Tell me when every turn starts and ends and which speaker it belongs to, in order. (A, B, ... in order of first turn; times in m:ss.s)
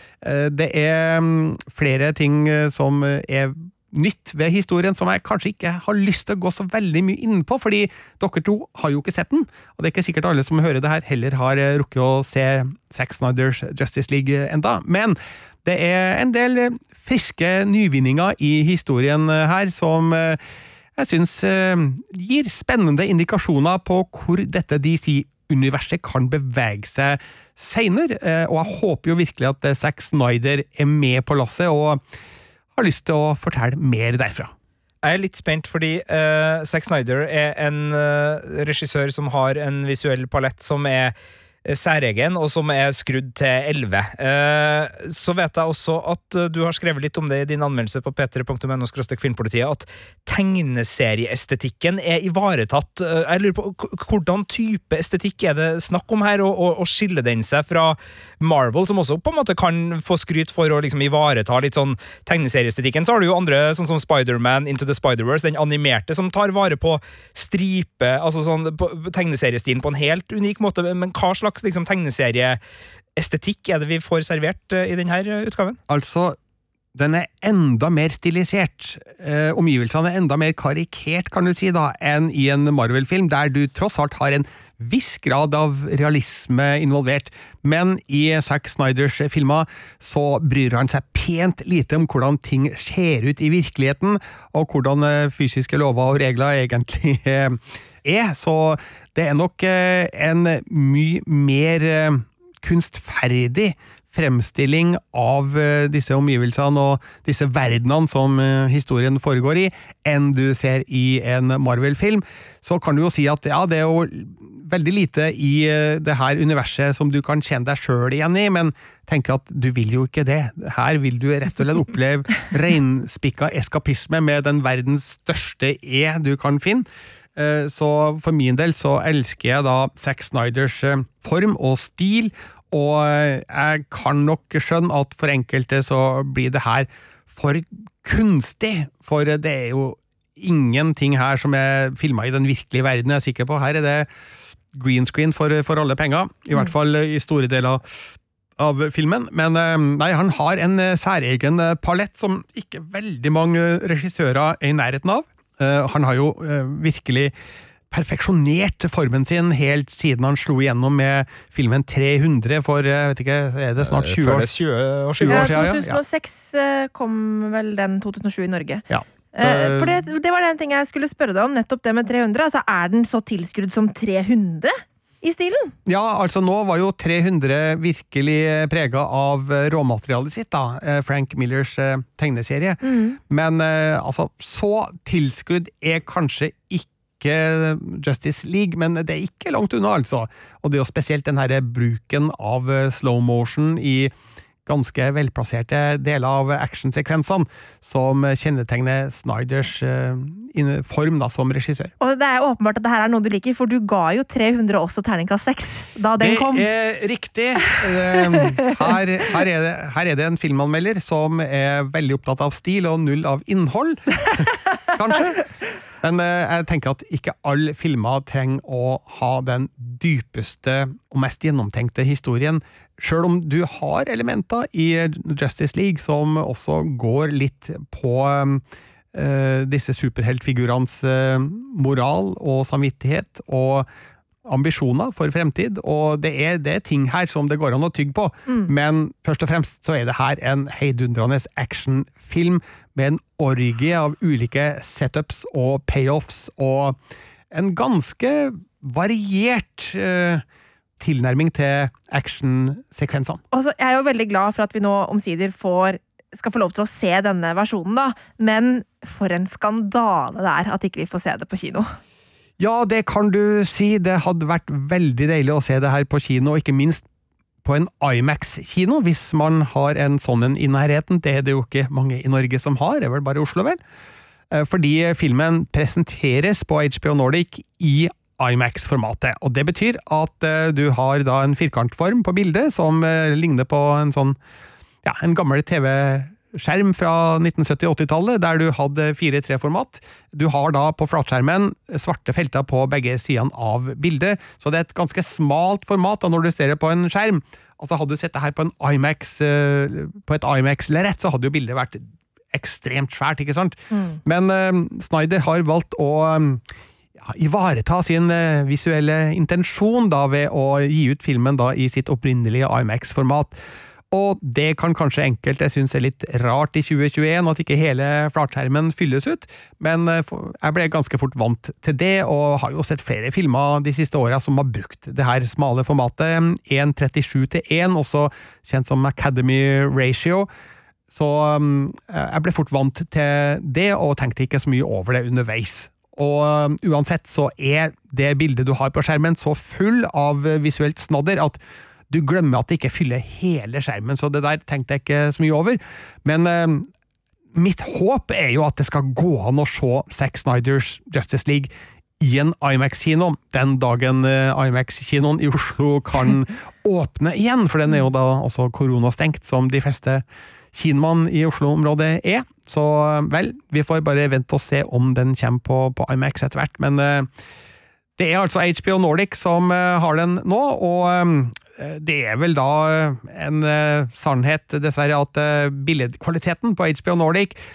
0:00.2-0:20.4 A
0:21.0-0:32.0 A
0:32.8-0:34.5 A
0:35.0-0:41.1 B
0:41.6-1:12.6 B
1:13.2-1:15.8 B
1:15.9-1:16.4 A
1:16.9-2:24.1 A
2:24.7-2:37.3 A
2:37.9-2:44.5 A
2:43.8-2:45.7 B
2:45.1-2:46.0 A
2:45.3-2:48.8 C
2:48.9-2:50.0 A
2:49.4-2:55.7 C
2:55.8-3:14.1 A
3:02.8-3:03.2 C
3:14.6-3:21.9 A
3:22.0-3:26.6 C
3:26.2-3:35.4 A
3:28.1-3:28.4 C
3:36.0-3:53.9 A
3:54.4-4:07.0 A
4:07.5-4:10.4 A
4:11.0-4:13.4 A
4:13.5-4:21.9 C
4:22.6-4:27.0 A
4:27.6-4:33.8 A
4:34.5-4:44.4 A
4:45.0-5:06.6 A
5:03.9-5:04.2 C
5:07.2-5:13.5 A
5:14.1-5:30.5 A
5:31.1-5:41.6 A
5:42.1-5:46.9 A
5:47.5-6:07.3 A
6:08.2-6:17.6 A